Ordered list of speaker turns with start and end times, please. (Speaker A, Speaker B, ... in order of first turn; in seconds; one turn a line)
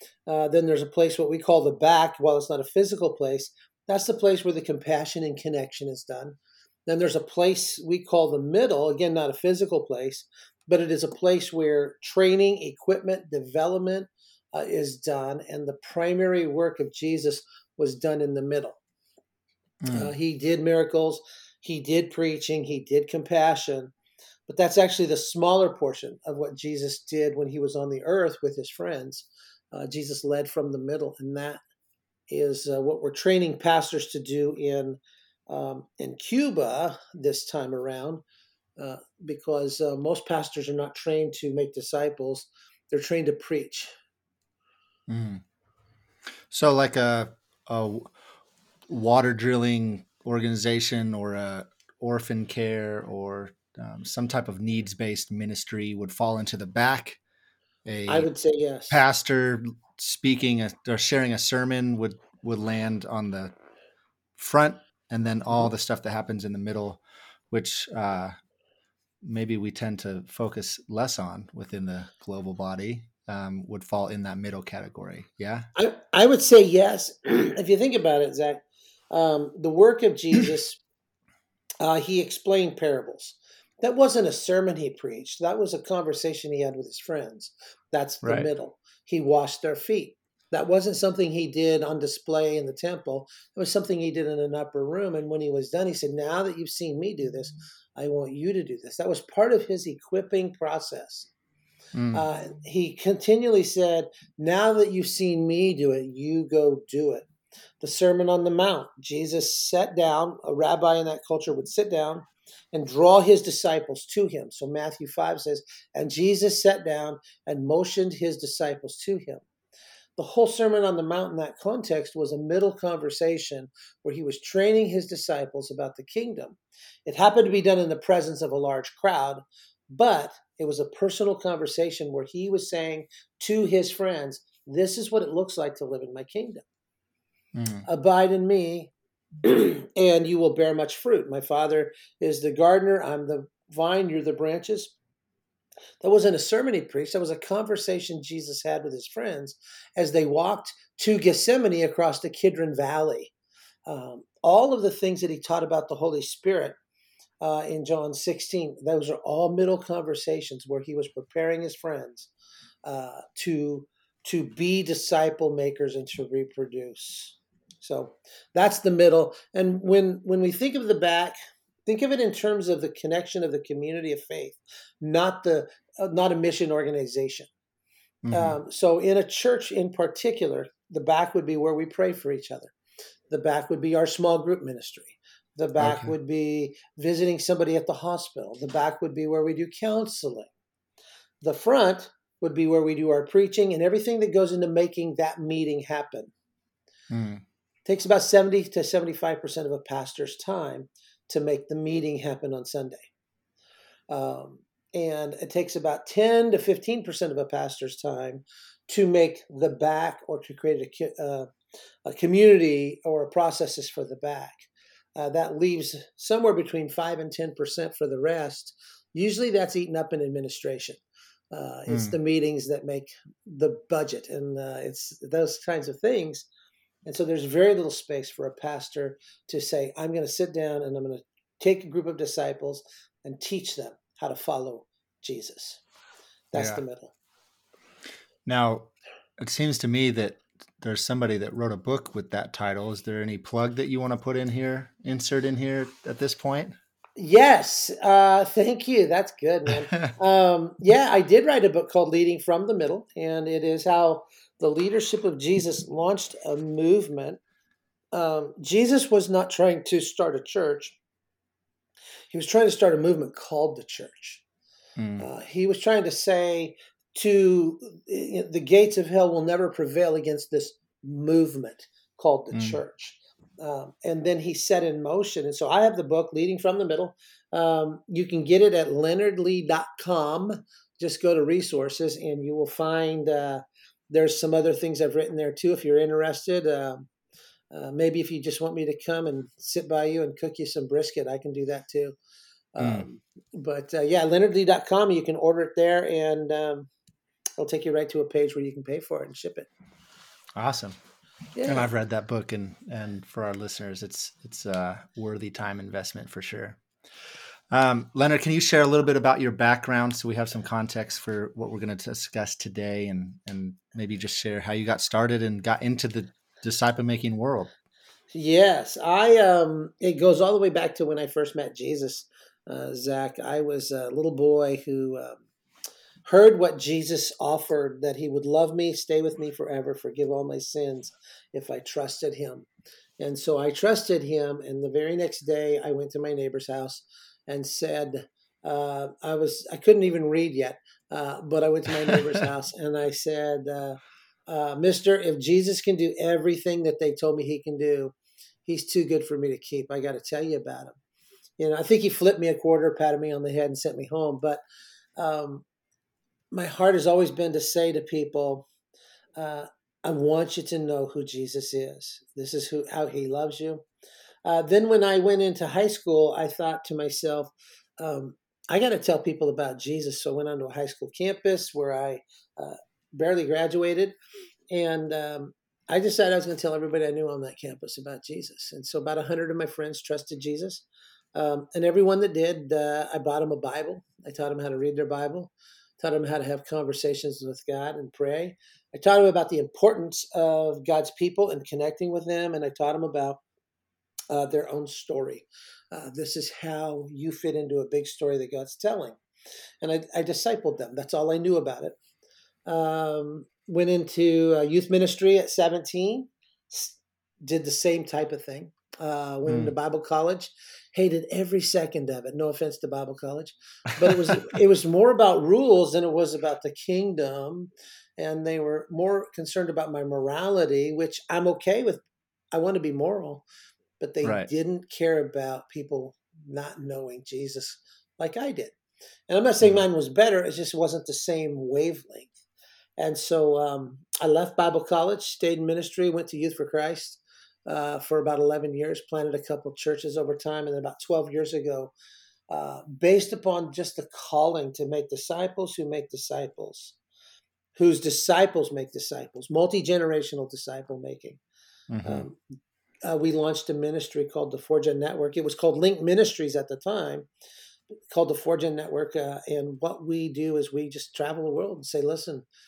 Speaker A: 0.3-18.8
Speaker B: 19.8-20.1
Speaker A: 19.9-23.9
Speaker A: 24.5-31.6
Speaker A: 32.3-38.2
Speaker A: 38.8-43.9
Speaker B: 45.1-45.4
Speaker B: 46.5-48.1
Speaker B: 48.9-57.2
Speaker B: 57.8-58.3
Speaker A: 58.1-59.0
Speaker B: 58.9-63.5
Speaker B: 64.4-68.3
Speaker B: 69.2-75.7
Speaker A: 75.8-80.8
Speaker A: 81.8-101.3
Speaker B: 88.2-88.5
Speaker B: 101.9-102.2
Speaker A: 102.1-107.3
Speaker A: 107.8-119.4
Speaker A: 120.2-136.6
Speaker B: 137.5-137.8
Speaker A: 137.8-138.9
Speaker A: 139.4-144.9
Speaker A: 146.0-153.3
Speaker A: 153.9-156.8
Speaker A: 157.4-162.3
Speaker A: 162.8-171.3
Speaker A: 171.8-177.5
Speaker B: 178.2-178.6
Speaker A: 178.3-182.7
Speaker A: 183.3-190.5
Speaker B: 185.8-186.1
Speaker A: 191.4-196.3
Speaker B: 197.1-197.4
Speaker A: 197.8-203.1
Speaker A: 204.1-211.5
Speaker A: 212.0-226.5
Speaker B: 221.9-222.2
Speaker A: 227.1-235.8
Speaker A: 236.5-237.1
Speaker B: 236.5-236.8
Speaker B: 238.5-246.8
Speaker A: 247.2-257.4
Speaker A: 258.1-261.0
Speaker A: 262.3-264.4
Speaker B: 265.0-265.2
Speaker A: 265.2-287.1
Speaker B: 272.5-272.8
Speaker A: 287.7-292.2
Speaker A: 292.7-296.9
Speaker B: 292.8-293.0
Speaker A: 297.6-299.7
Speaker B: 300.5-301.0
Speaker A: 301.5-301.9
Speaker B: 301.6-306.8
Speaker B: 307.7-317.7
Speaker A: 318.3-325.4
Speaker A: 326.2-332.7
Speaker A: 333.2-348.1
Speaker B: 342.1-342.4
Speaker A: 348.6-351.0
Speaker A: 351.6-354.6
Speaker A: 355.2-355.6
Speaker A: 356.5-358.7
Speaker A: 359.4-363.8
Speaker A: 364.4-374.1
Speaker A: 374.7-393.4
Speaker A: 394.3-399.2
Speaker A: 399.8-401.9
Speaker A: 402.7-423.4
Speaker B: 409.4-409.7
Speaker A: 424.0-428.8
Speaker B: 424.2-424.5
Speaker A: 429.3-432.3
Speaker A: 433.0-441.9
Speaker A: 442.5-446.9
Speaker A: 447.8-451.4
Speaker B: 451.9-452.2
Speaker A: 452.0-452.4
Speaker A: 453.0-457.3
Speaker A: 458.1-462.4